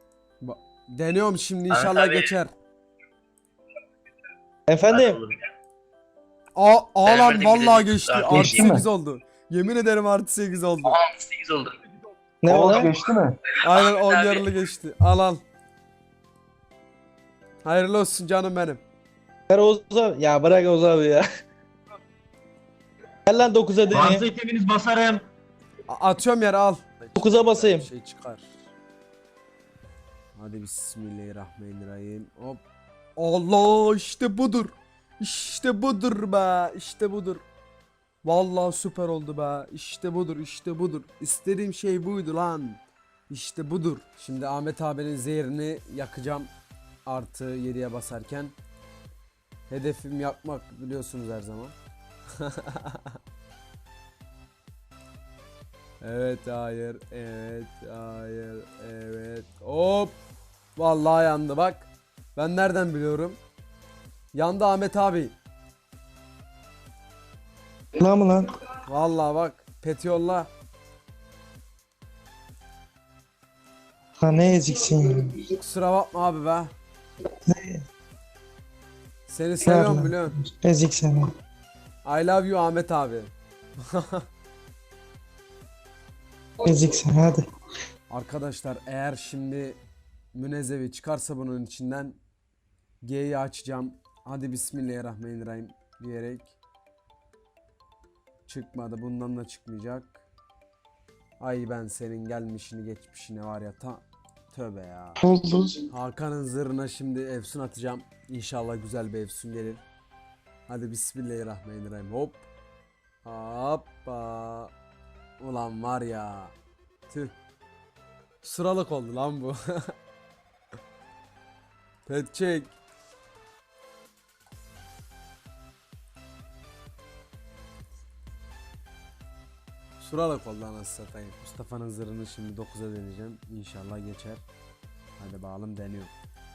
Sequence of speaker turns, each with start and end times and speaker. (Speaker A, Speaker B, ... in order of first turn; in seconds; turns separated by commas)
Speaker A: 0.4-2.5, Speaker B: 1.7-2.3, Speaker C: 4.7-5.2, Speaker B: 4.9-5.4, Speaker A: 6.5-11.0, Speaker B: 7.0-8.8, Speaker B: 10.8-11.8, Speaker C: 12.4-12.9, Speaker D: 12.5-13.3, Speaker A: 13.6-15.4, Speaker B: 13.7-14.4, Speaker A: 17.6-18.8, Speaker C: 19.5-21.2, Speaker C: 23.2-24.3, Speaker D: 23.9-25.2, Speaker A: 25.9-28.7, Speaker C: 27.1-27.9, Speaker A: 30.4-32.6, Speaker A: 33.2-37.4, Speaker A: 38.2-46.5, Speaker A: 47.1-48.5, Speaker A: 49.7-51.8, Speaker A: 52.4-53.2, Speaker A: 56.0-60.2, Speaker A: 60.8-63.4, Speaker A: 64.3-65.3, Speaker C: 68.0-68.4, Speaker A: 68.9-70.5, Speaker C: 74.2-75.4, Speaker A: 75.6-76.7, Speaker C: 77.5-77.8, Speaker A: 79.3-80.4, Speaker C: 79.6-81.2, Speaker A: 82.0-84.2, Speaker C: 86.6-87.4, Speaker A: 88.1-89.8, Speaker A: 90.3-92.2, Speaker A: 93.0-96.6, Speaker A: 98.5-100.2, Speaker A: 101.4-105.2, Speaker C: 105.2-105.8, Speaker A: 105.9-109.8, Speaker A: 110.7-112.5, Speaker A: 113.2-114.7, Speaker A: 115.4-116.5, Speaker A: 117.1-117.3, Speaker A: 118.4-119.9, Speaker A: 122.0-122.7, Speaker A: 130.0-134.4, Speaker A: 135.2-136.1